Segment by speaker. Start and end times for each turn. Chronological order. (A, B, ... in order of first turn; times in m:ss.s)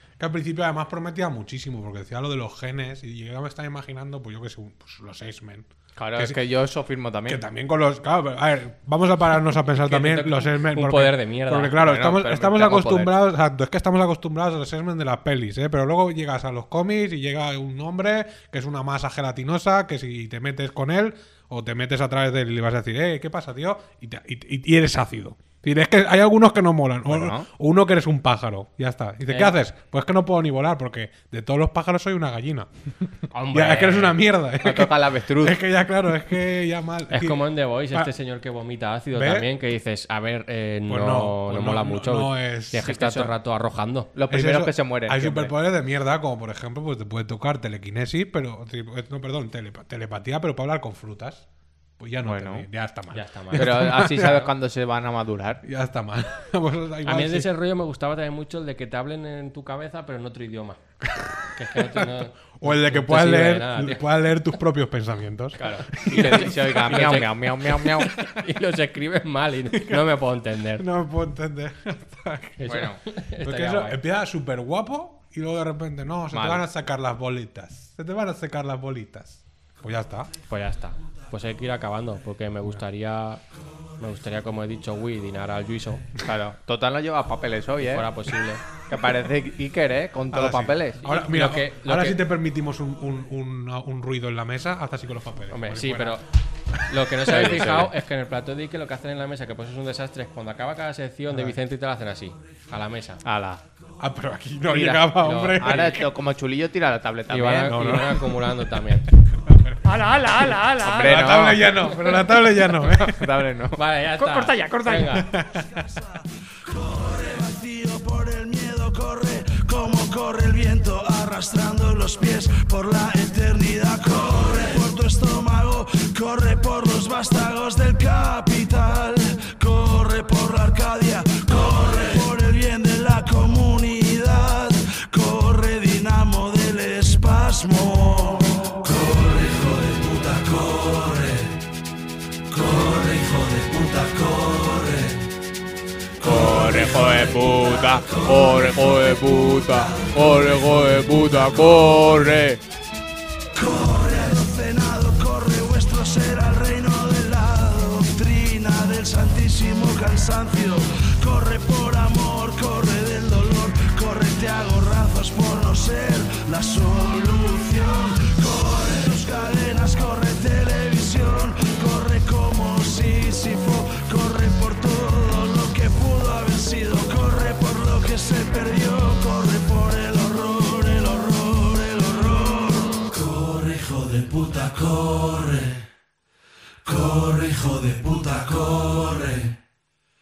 0:00.2-0:06.4 A
0:06.0-0:07.4 B
0:07.3-0:32.7 A
0:09.8-0:11.8 C
0:11.8-0:13.1 B
0:27.1-0:27.5 B
0:29.3-0:29.6 C
0:33.3-0:34.2 C
0:33.5-0:38.1 A
0:34.6-0:35.6 B
0:37.1-0:44.1 C
0:39.1-0:39.5 A
0:40.9-0:42.9 A
0:42.8-0:43.3 B
0:44.2-0:45.5 B
0:44.3-0:51.5 A
0:52.0-0:54.5 A
0:52.2-0:52.7 B
0:53.1-0:54.5 C
0:53.6-0:55.6 B
0:55.6-0:57.5 A
0:57.0-1:00.8 C
1:01.0-1:07.2 A
1:01.6-1:04.1 C
1:05.6-1:08.2 B
1:06.1-1:10.9 C
1:09.7-1:10.1 A
1:10.7-1:12.6 A
1:12.6-1:14.0 C
1:12.7-1:13.0 B
1:13.4-1:20.3 A
1:16.3-1:16.6 B
1:20.5-1:23.4 C
1:24.0-1:26.1 C
1:26.2-1:28.1 B
1:27.8-1:28.6 C
1:28.8-1:31.0 B
1:30.3-1:36.2 A
1:31.0-1:32.2 C
1:35.5-1:36.2 C
1:36.7-1:37.8 A
1:36.9-1:43.2 C
1:37.3-1:37.9 B
1:41.3-1:41.6 A
1:43.2-1:43.6 B
1:44.0-1:46.1 A
1:44.7-1:45.1 B
1:44.8-1:46.0 C
1:45.6-1:48.0 B
1:47.3-1:49.1 C
1:47.7-1:48.6 A
1:49.4-1:49.8 A
1:49.8-1:51.3 D
1:50.4-1:53.4 A
1:50.8-1:51.7 B
1:52.7-1:53.8 B
1:53.8-1:55.3 C
1:54.2-1:55.3 D
1:55.2-1:55.7 A
1:55.6-2:21.5 E
2:22.5-2:25.2 E
2:26.2-2:30.6 E
2:26.2-2:32.6 B
2:33.5-3:05.8 E
3:06.9-3:09.5 E